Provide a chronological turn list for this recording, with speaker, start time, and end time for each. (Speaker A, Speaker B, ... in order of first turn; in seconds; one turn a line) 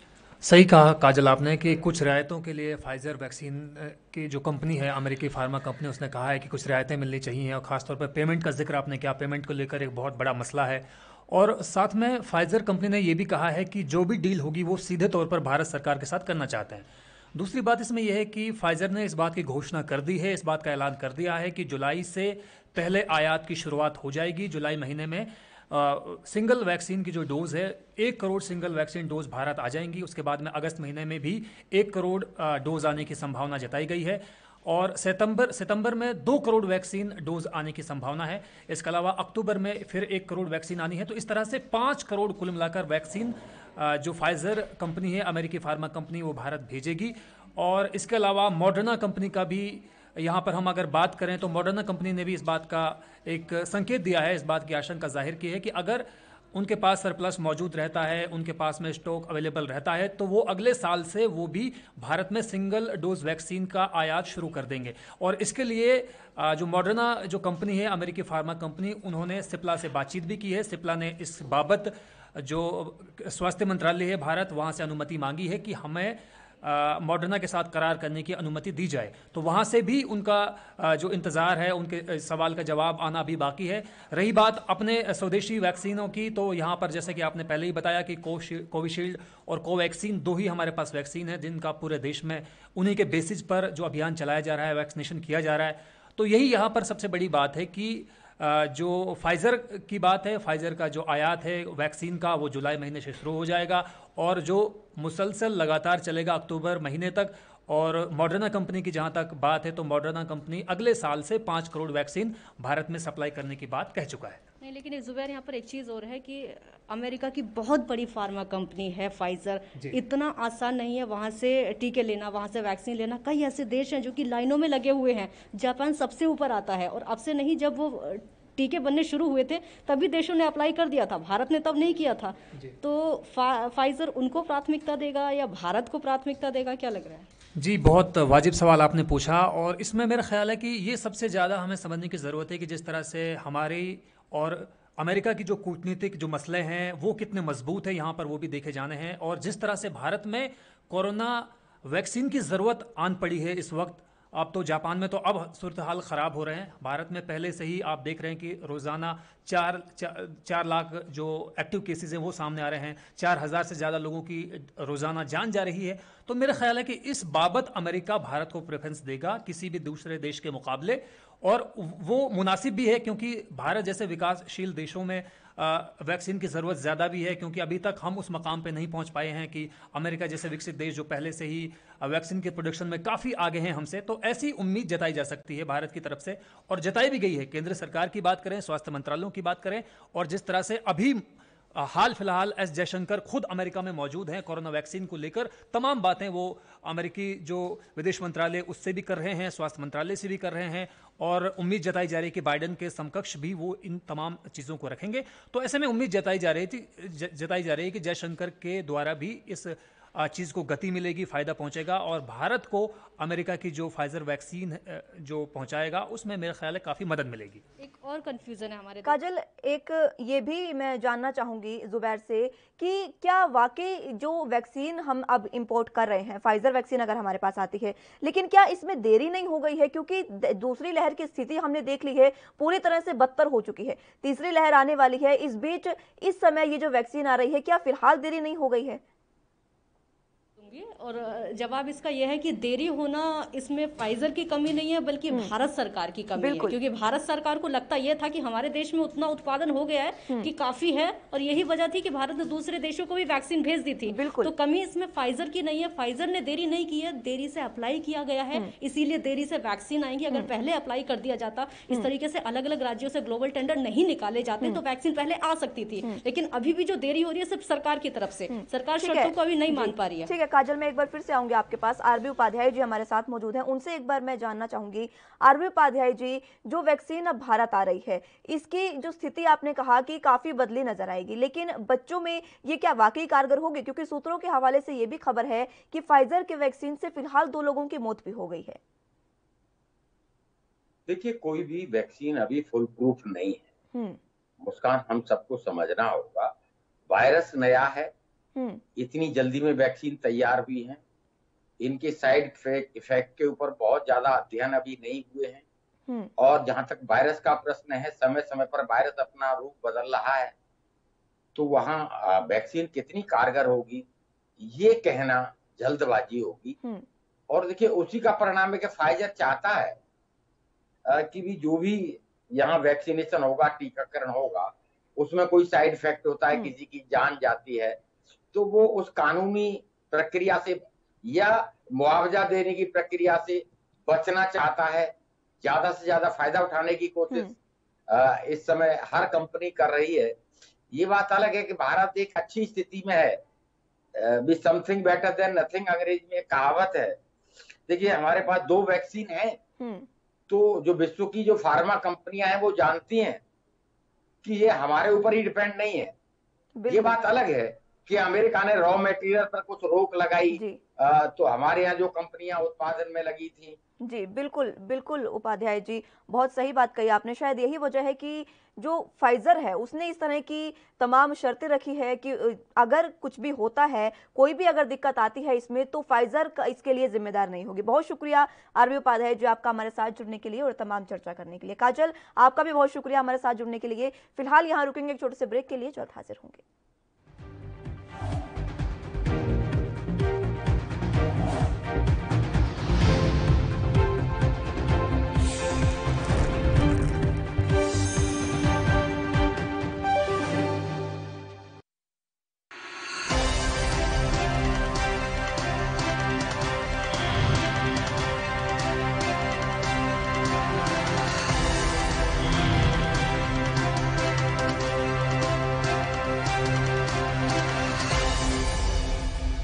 Speaker A: 0.4-114.4
Speaker B: 114.6-137.3
Speaker A: 137.6-217.6
Speaker B: 217.8-219.2
Speaker C: 219.0-239.0
Speaker B: 240.6-270.3
Speaker C: 246.4-246.8
Speaker C: 254.1-254.5
Speaker C: 268.5-288.8
Speaker D: 291.1-293.6
Speaker C: 293.9-294.2
Speaker D: 294.6-296.5
Speaker D: 297.1-298.1
Speaker C: 298.6-298.8
Speaker D: 298.9-301.0
Speaker D: 301.8-305.6
Speaker D: 306.4-310.5
Speaker D: 311.5-314.0
Speaker D: 314.6-316.8
Speaker D: 317.5-320.0
Speaker D: 321.1-328.0
Speaker D: 328.5-337.5
Speaker D: 338.1-340.4
Speaker D: 340.9-343.4
Speaker D: 344.1-347.2
Speaker D: 347.9-349.6
Speaker C: 349.8-350.1
Speaker D: 350.5-353.4
Speaker D: 354.4-356.1
Speaker C: 356.8-357.1
Speaker D: 356.9-363.8
Speaker C: 360.5-360.8
Speaker C: 364.0-386.6